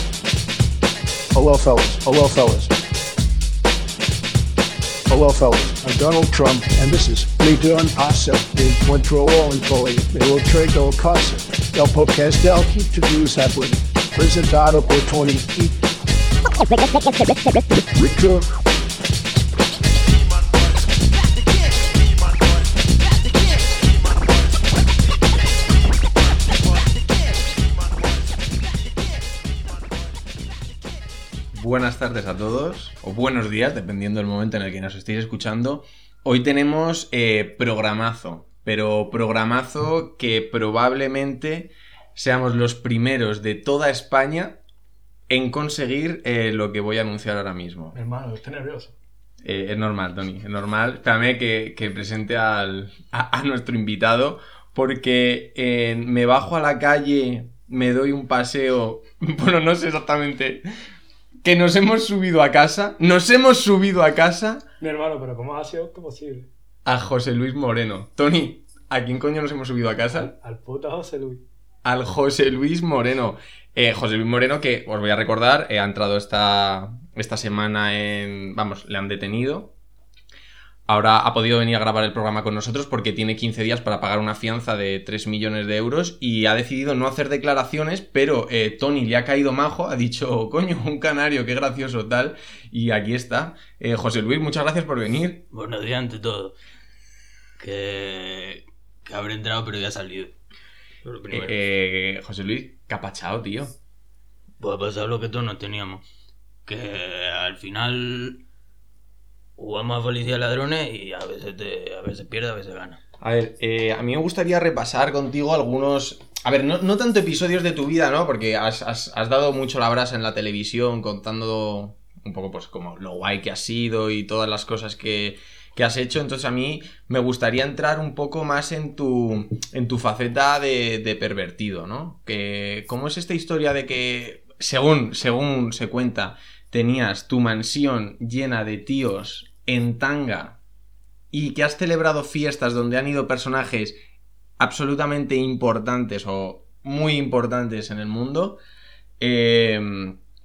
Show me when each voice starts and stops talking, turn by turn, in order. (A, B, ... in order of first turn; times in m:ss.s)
0:01.3-0:02.7 A
0:05.1-0:15.8 A
0:17.9-0:18.5 A
0:31.5-0:44.6 B
0:45.3-0:48.0 B
0:47.9-0:48.9 C
0:49.4-1:00.6 B
1:01.4-1:04.6 B
1:04.8-1:06.5 C
1:06.8-1:10.3 B
1:10.1-1:11.4 C
1:11.8-1:19.7 B
1:20.9-1:35.4 B
1:35.5-1:36.5 D
1:37.6-1:40.3 D
1:41.0-1:41.7 D
1:41.3-1:43.8 B
1:44.6-1:46.0 D
1:46.7-1:48.4 D
1:49.6-1:53.0 D
1:53.2-2:20.6 B
2:21.3-2:24.0 B
2:24.6-2:28.6 B
2:29.2-2:30.2 B